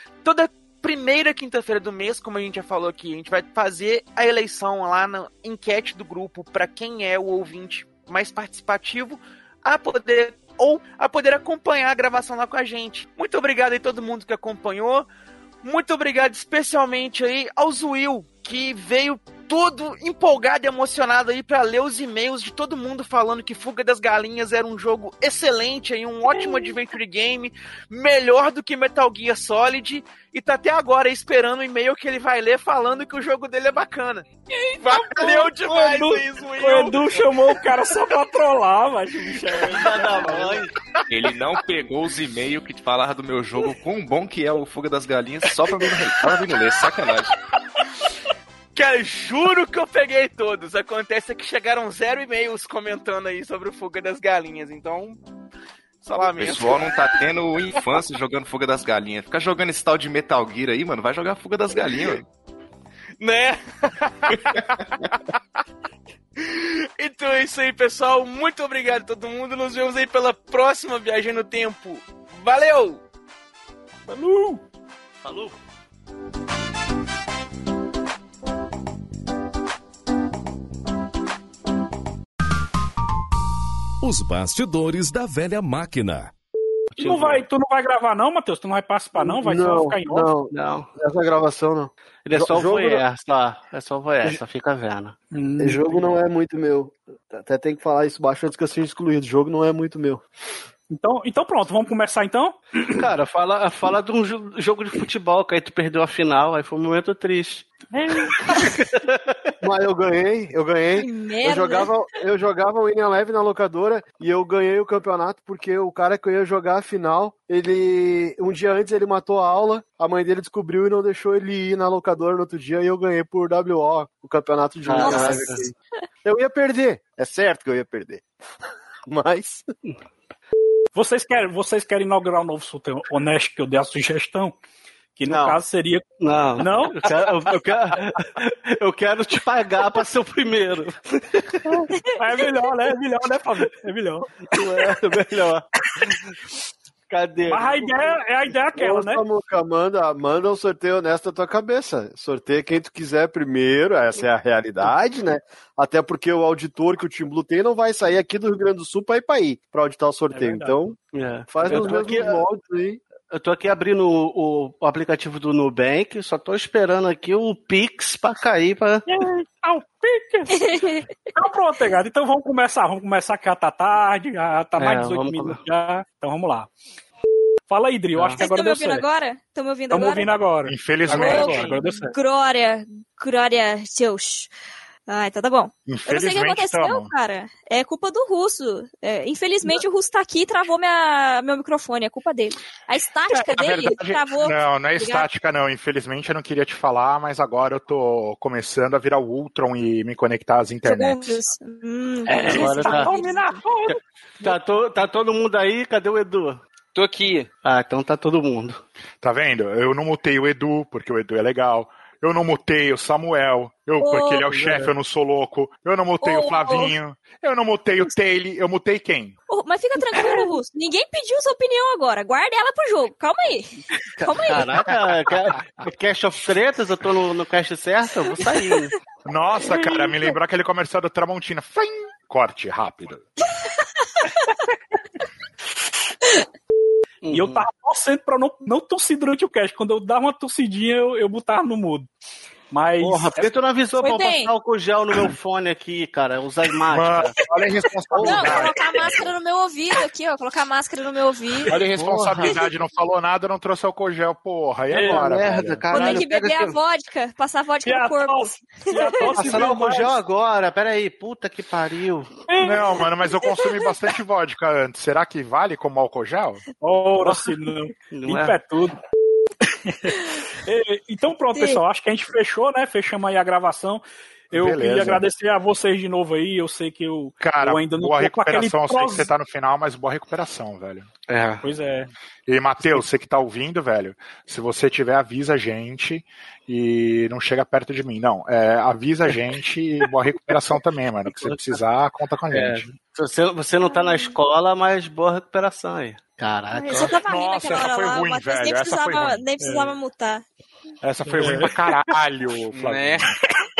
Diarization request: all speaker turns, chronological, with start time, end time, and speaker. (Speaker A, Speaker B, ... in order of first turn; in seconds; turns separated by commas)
Speaker A: 0.2-15.1, Speaker A: 15.6-34.2, Speaker B: 34.6-40.5, Speaker A: 34.8-37.5, Speaker C: 39.6-40.7, Speaker D: 41.1-47.3, Speaker A: 48.7-55.2, Speaker A: 56.0-57.2, Speaker D: 56.3-62.2, Speaker A: 63.2-65.1, Speaker A: 66.4-73.0, Speaker B: 74.1-74.6, Speaker C: 75.2-75.5, Speaker E: 84.0-86.3, Speaker B: 87.0-90.3, Speaker F: 87.0-87.4, Speaker F: 89.2-93.0, Speaker C: 90.5-90.9, Speaker C: 92.2-95.2, Speaker B: 95.3-96.2, Speaker F: 95.6-100.2, Speaker B: 100.9-102.8, Speaker C: 102.9-109.4, Speaker F: 109.6-128.3, Speaker G: 110.9-111.9, Speaker C: 124.8-125.6, Speaker G: 125.0-125.3, Speaker F: 129.1-129.7, Speaker B: 130.9-134.6, Speaker B: 135.2-136.0, Speaker A: 135.3-135.6, Speaker C: 136.2-141.9, Speaker B: 136.6-137.3, Speaker B: 142.1-144.9, Speaker C: 144.4-146.1, Speaker C: 147.1-148.2, Speaker B: 147.5-149.2, Speaker F: 148.7-161.0, Speaker B: 160.3-160.8, Speaker C: 161.1-162.4, Speaker F: 161.5-163.0, Speaker C: 163.3-169.0, Speaker B: 169.1-170.8, Speaker G: 170.5-171.1, Speaker B: 171.3-176.7, Speaker C: 174.8-175.6, Speaker B: 177.7-179.0, Speaker C: 178.1-178.4, Speaker G: 178.4-180.3, Speaker B: 179.9-182.1, Speaker H: 180.7-181.8, Speaker G: 181.1-184.5, Speaker G: 185.1-195.2, Speaker H: 185.9-187.1, Speaker H: 193.3-201.4, Speaker G: 200.8-203.6, Speaker B: 202.3-204.6, Speaker C: 202.5-203.1, Speaker C: 204.4-206.6, Speaker A: 206.9-207.5, Speaker C: 207.6-208.8, Speaker H: 209.2-219.3, Speaker G: 214.0-214.6, Speaker G: 216.2-216.9, Speaker G: 219.5-225.0, Speaker C: 224.2-228.9, Speaker H: 229.2-233.3, Speaker C: 237.2-237.7, Speaker B: 237.3-242.1, Speaker B: 242.7-243.5, Speaker C: 243.0-247.4, Speaker G: 244.0-244.5, Speaker H: 246.9-249.3, Speaker C: 248.1-248.7, Speaker G: 248.2-251.8, Speaker H: 251.7-256.2, Speaker C: 251.7-252.6, Speaker B: 254.9-255.2, Speaker C: 254.9-256.2, Speaker F: 255.3-256.6, Speaker G: 255.9-259.4, Speaker B: 257.8-260.2, Speaker C: 259.4-262.4, Speaker F: 259.4-260.2, Speaker B: 262.5-262.8, Speaker H: 262.6-266.6, Speaker B: 266.8-269.0, Speaker C: 268.1-268.6, Speaker B: 269.6-279.3, Speaker H: 274.5-275.2, Speaker H: 277.4-281.1, Speaker C: 281.3-281.7, Speaker B: 281.6-282.1, Speaker H: 282.5-292.9, Speaker C: 291.2-291.7, Speaker C: 292.5-297.2, Speaker G: 293.9-294.4, Speaker G: 296.7-300.4, Speaker H: 296.9-299.4, Speaker B: 299.6-299.9, Speaker H: 301.0-303.3, Speaker B: 301.3-301.7, Speaker A: 302.7-303.3